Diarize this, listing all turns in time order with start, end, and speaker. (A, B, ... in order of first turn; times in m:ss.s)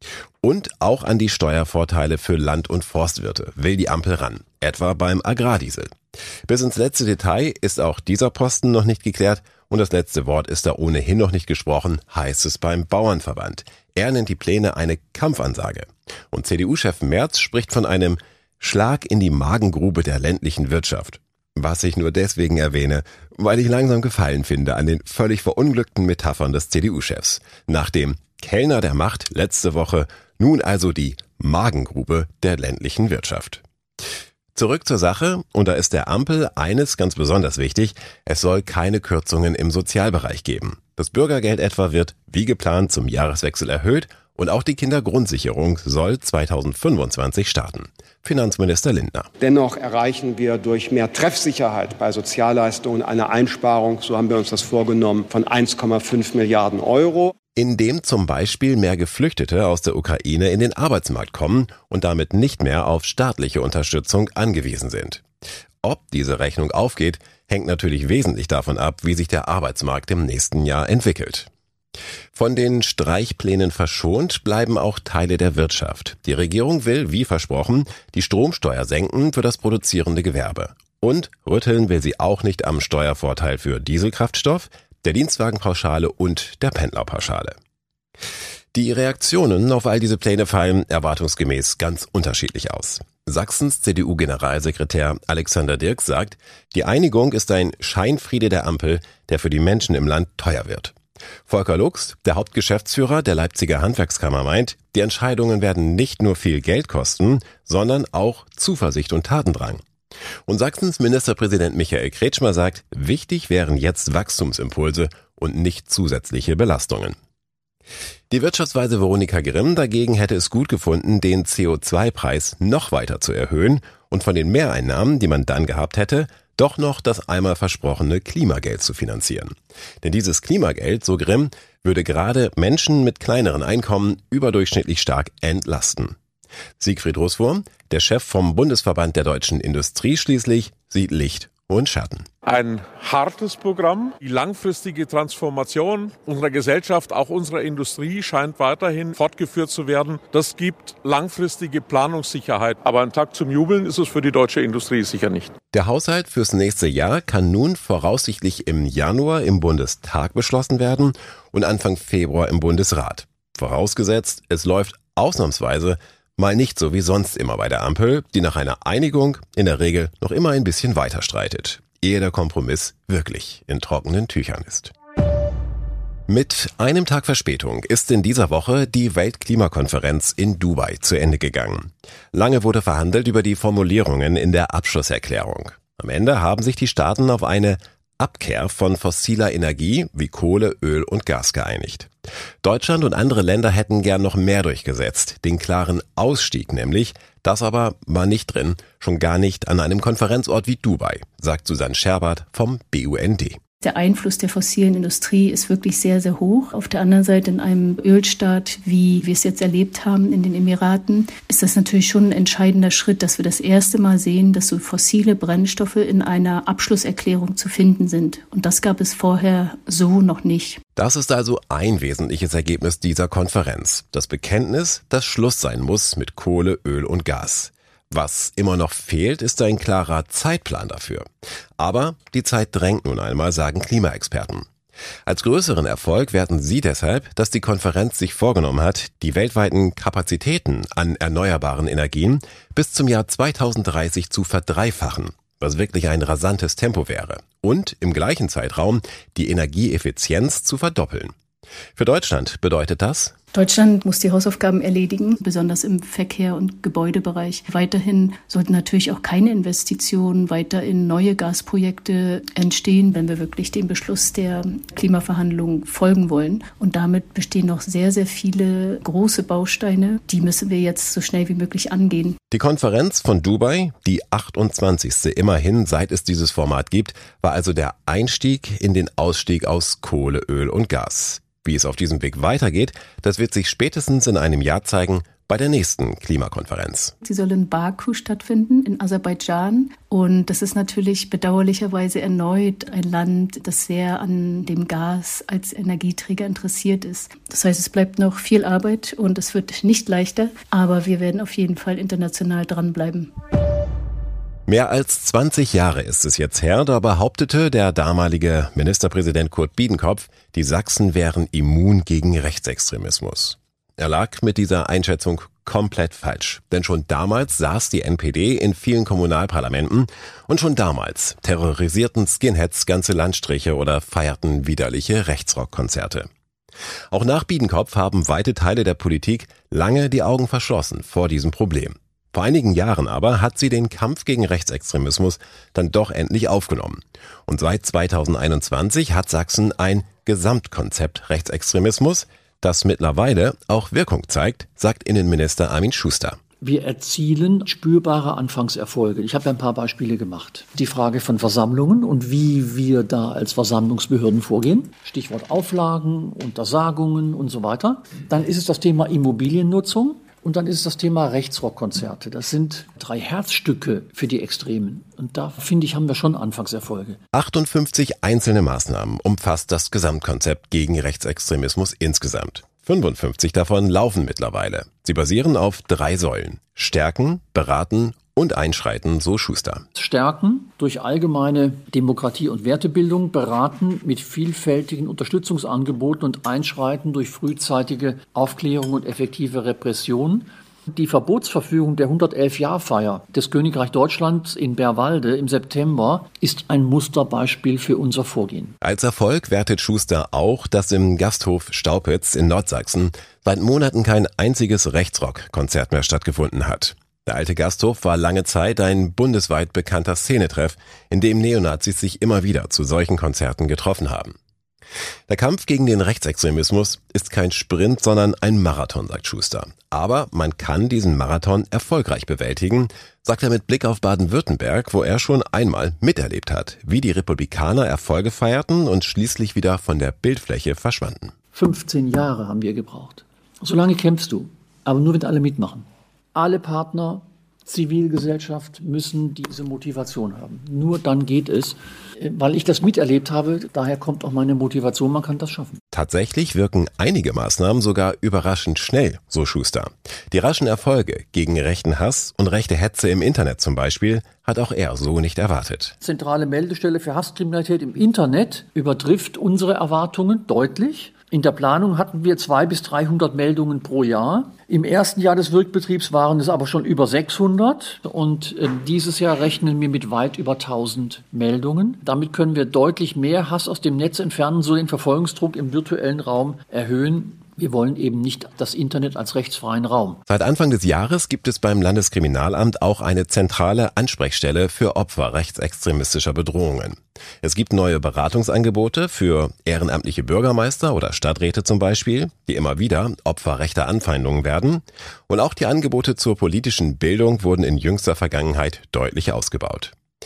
0:00.4-0:05.9 A
0:06.5-0:33.6 A
0:34.6-0:49.3 A
0:49.4-0:57.3 B
0:57.6-1:05.2 A
1:05.8-1:11.5 A
1:12.3-1:27.6 A
1:28.7-1:40.9 A
1:41.4-1:49.8 A
1:50.5-1:57.2 A
1:58.3-2:16.2 A
2:16.8-2:22.2 A
2:22.5-2:35.5 C
2:35.7-2:54.9 A
2:56.3-3:12.1 A
3:12.6-3:23.6 A
3:23.8-3:40.8 D
3:41.0-3:54.7 A
3:55.3-4:11.3 A
4:12.0-4:13.4 A
4:13.5-4:32.4 D
4:32.5-4:47.1 A
4:47.2-5:03.3 D
5:04.7-5:26.3 A
5:27.1-5:46.4 A
5:46.6-6:07.2 E
6:07.3-6:19.8 A
6:19.9-6:38.8 E
6:38.8-6:54.3 A
6:55.3-7:11.3 A
7:11.5-7:25.8 E
7:25.9-7:35.9 A
7:36.0-8:00.2 E
8:00.3-8:19.9 A